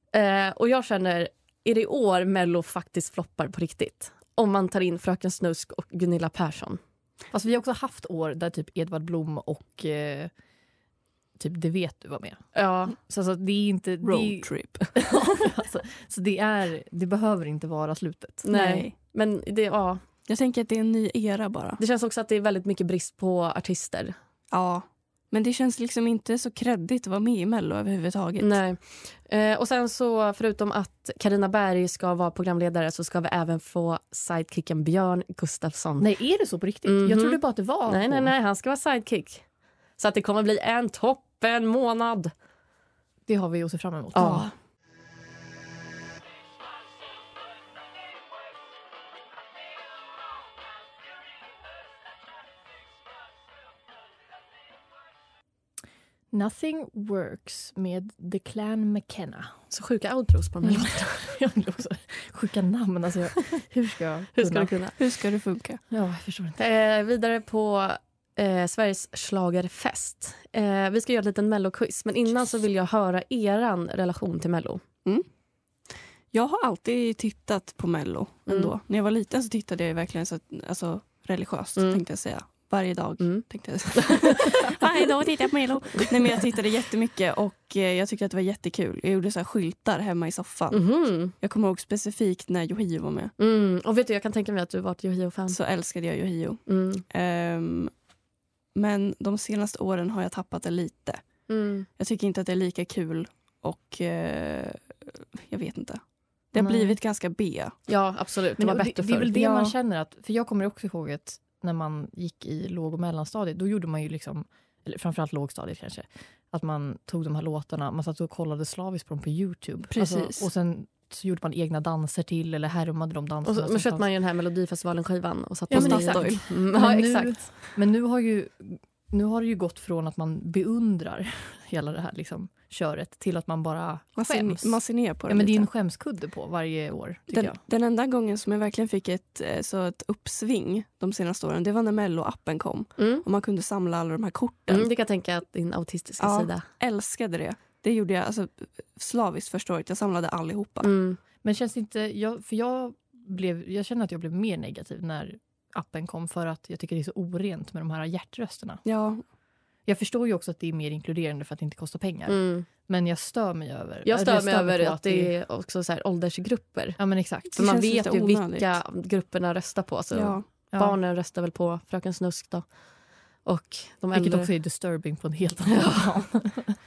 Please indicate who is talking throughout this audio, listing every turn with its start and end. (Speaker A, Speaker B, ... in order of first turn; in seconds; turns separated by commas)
Speaker A: 0.1-6.8, Speaker B: 7.3-10.3, Speaker B: 11.4-12.4, Speaker A: 12.5-13.0, Speaker B: 12.9-18.5, Speaker C: 14.0-14.9, Speaker A: 18.4-20.0, Speaker C: 18.5-18.9, Speaker C: 20.3-21.8, Speaker A: 21.8-24.1, Speaker C: 24.5-28.5, Speaker A: 28.4-36.1, Speaker B: 36.0-38.3, Speaker A: 36.9-39.4, Speaker A: 40.0-42.3, Speaker B: 43.2-44.5, Speaker A: 44.1-44.5, Speaker B: 56.3-59.5, Speaker A: 59.7-61.3, Speaker B: 60.6-64.8, Speaker A: 64.3-65.0, Speaker C: 65.0-65.8, Speaker B: 65.9-66.6, Speaker A: 66.6-74.8, Speaker C: 76.3-93.3, Speaker A: 81.8-82.0, Speaker A: 83.2-84.9, Speaker A: 90.7-91.3, Speaker A: 93.4-95.6, Speaker C: 95.5-97.9, Speaker A: 96.7-97.0, Speaker C: 98.7-101.2, Speaker A: 101.5-101.9, Speaker C: 102.0-107.7, Speaker B: 106.5-107.0, Speaker A: 107.9-109.7, Speaker B: 108.6-124.0, Speaker C: 119.9-120.5, Speaker A: 123.4-127.4, Speaker B: 125.7-137.6, Speaker C: 125.7-126.4, Speaker C: 134.2-135.7, Speaker C: 137.3-144.9, Speaker A: 143.0-143.2, Speaker A: 144.7-146.6, Speaker C: 146.2-150.9, Speaker A: 150.8-151.2, Speaker B: 151.4-158.8, Speaker C: 158.8-159.2, Speaker B: 159.9-165.3, Speaker A: 162.3-162.7, Speaker A: 164.0-167.0, Speaker B: 167.0-167.6, Speaker A: 167.5-172.8, Speaker C: 167.5-168.8, Speaker C: 170.1-170.4, Speaker A: 173.4-174.5, Speaker B: 174.1-176.8, Speaker A: 175.7-176.0